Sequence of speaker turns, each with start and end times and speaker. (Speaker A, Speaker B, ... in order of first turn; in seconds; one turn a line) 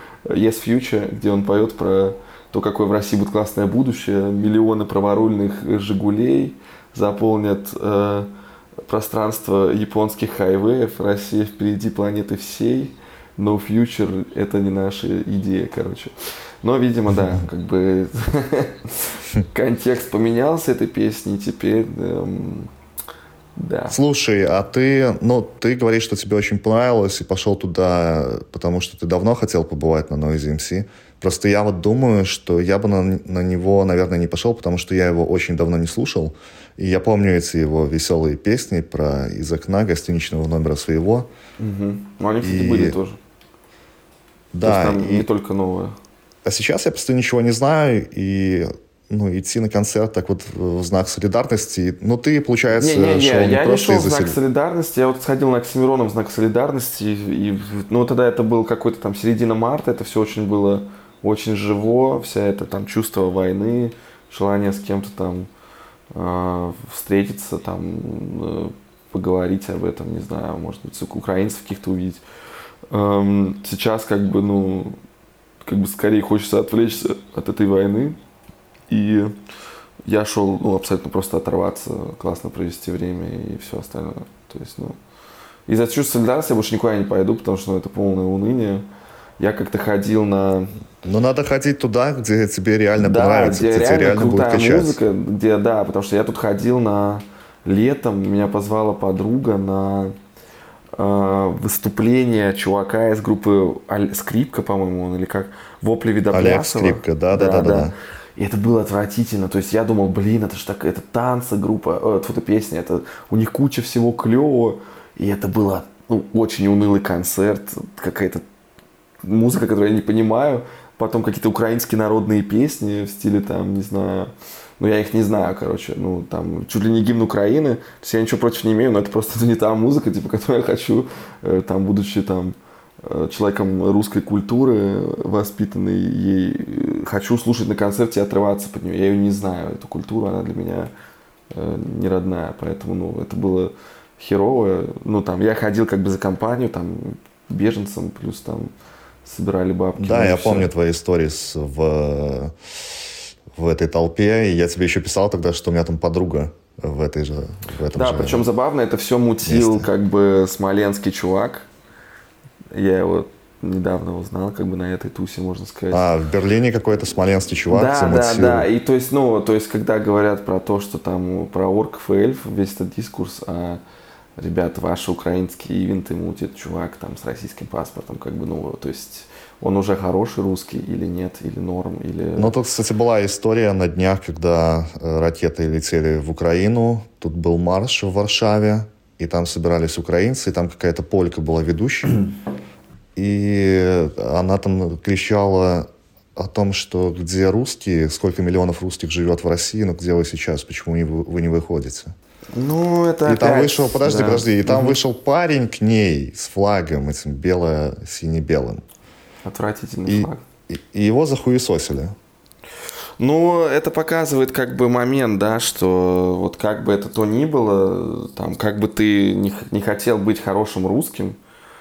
Speaker A: 0.3-8.3
Speaker A: 8.9-22.7
Speaker A: 23.6-24.0
Speaker B: 23.9-41.3
Speaker A: 41.6-43.2
Speaker B: 42.4-43.0
Speaker B: 44.5-45.3
Speaker A: 44.6-46.0
Speaker B: 46.5-54.4
Speaker A: 52.8-65.5
Speaker A: 66.1-72.2
Speaker A: 72.9-75.0
Speaker A: 75.6-78.2
Speaker A: 78.9-79.3
Speaker A: 80.1-85.0
Speaker A: 85.7-88.9
Speaker A: 89.4-90.7
Speaker B: 91.0-95.0
Speaker A: 93.0-100.2
Speaker A: 101.0-118.4
Speaker B: 106.3-107.9
Speaker A: 119.2-140.9
Speaker A: 141.5-148.7
Speaker A: 149.2-150.7
Speaker B: 150.0-152.6
Speaker B: 153.5-158.5
Speaker A: 157.9-161.7
Speaker B: 159.4-159.9
Speaker A: 162.7-166.0
Speaker B: 165.9-168.7
Speaker A: 167.7-173.8
Speaker A: 174.4-182.6
Speaker B: 182.4-192.3
Speaker B: 193.2-202.1
Speaker A: 202.6-205.0
Speaker B: 203.2-208.8
Speaker A: 209.4-210.4
Speaker B: 210.1-212.2
Speaker A: 213.2-221.4